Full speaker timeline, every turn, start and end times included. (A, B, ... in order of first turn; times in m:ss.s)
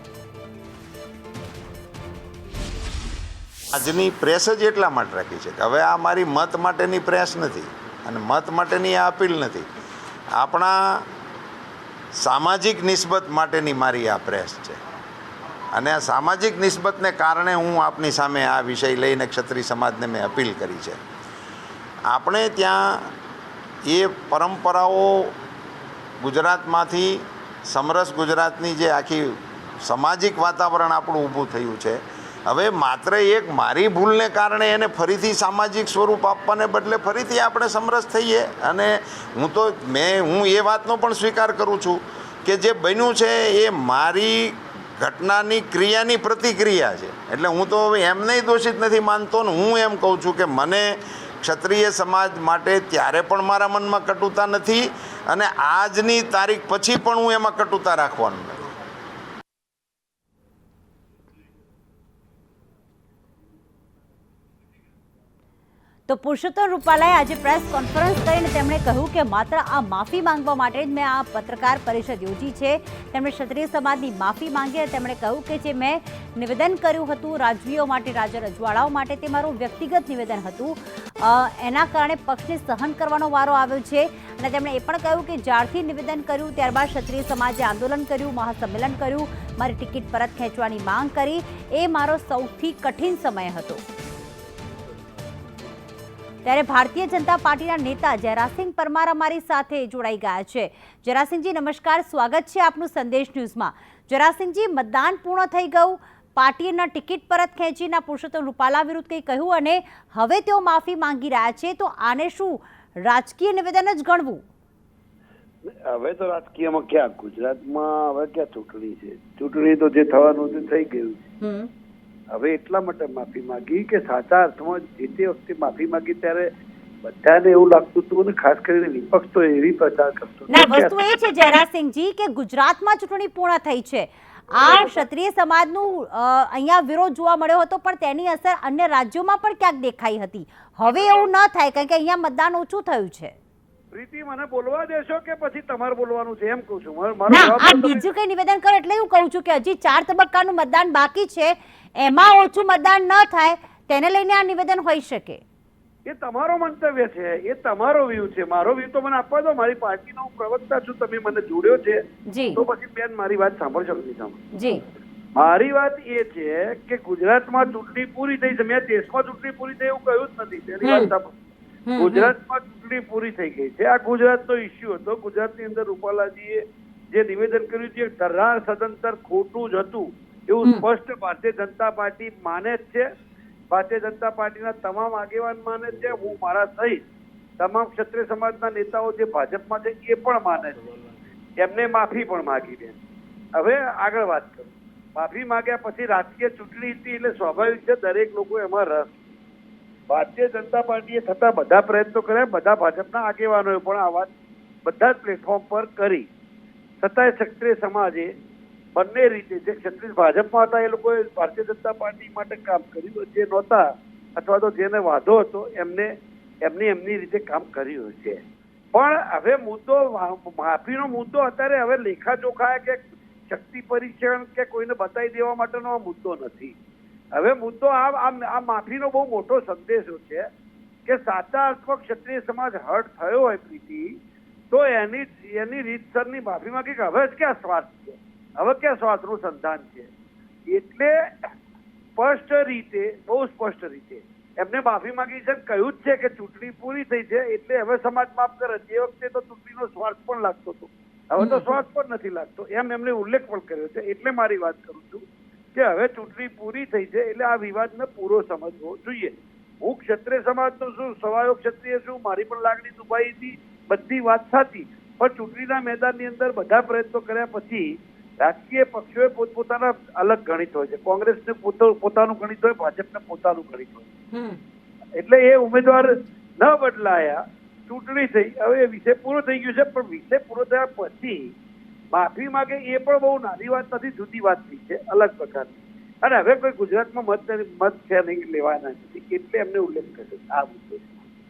0:03.7-0:09.7 A
0:10.4-0:11.1 A
0:12.2-0:14.8 A
0:15.7-0:21.0 A
0:22.1-0:23.1 A
0:23.9-0:25.3 A
0:26.2-0:58.6 A
1:06.1-1:33.8 B
1:36.4-1:54.4 B
1:55.7-2:01.2 C
2:01.4-2:01.7 B
2:02.3-2:06.5 C
2:07.0-2:11.0 C
2:10.5-2:23.4 B
2:14.6-2:15.0 C
2:20.9-2:21.3 C
2:23.9-2:28.0 C
2:27.3-2:35.4 B
2:36.1-2:42.0 C
2:42.3-2:42.6 B
2:42.6-2:44.4 C
2:44.5-2:44.8 B
2:45.4-2:51.3 C
2:50.8-2:51.1 B
2:51.9-2:52.3 B
2:52.0-3:03.0 C
3:03.7-3:07.0 C
3:07.6-3:10.9 C
3:11.6-3:13.0 C
3:13.6-3:19.2 C
3:20.1-3:24.3 C
3:24.8-3:26.3 C
3:27.0-3:28.3 C
3:29.0-3:36.1 C
3:36.6-3:38.4 C
3:38.9-3:46.8 C
3:47.3-3:50.4 C
3:51.1-3:54.1 C
3:54.7-4:00.1 C
4:00.7-4:01.5 C
4:02.2-4:34.1 C
4:11.4-4:11.8 B
4:34.3-4:34.6 B
4:35.2-4:36.1 C
4:36.6-4:41.5 C
4:42.1-4:51.2 C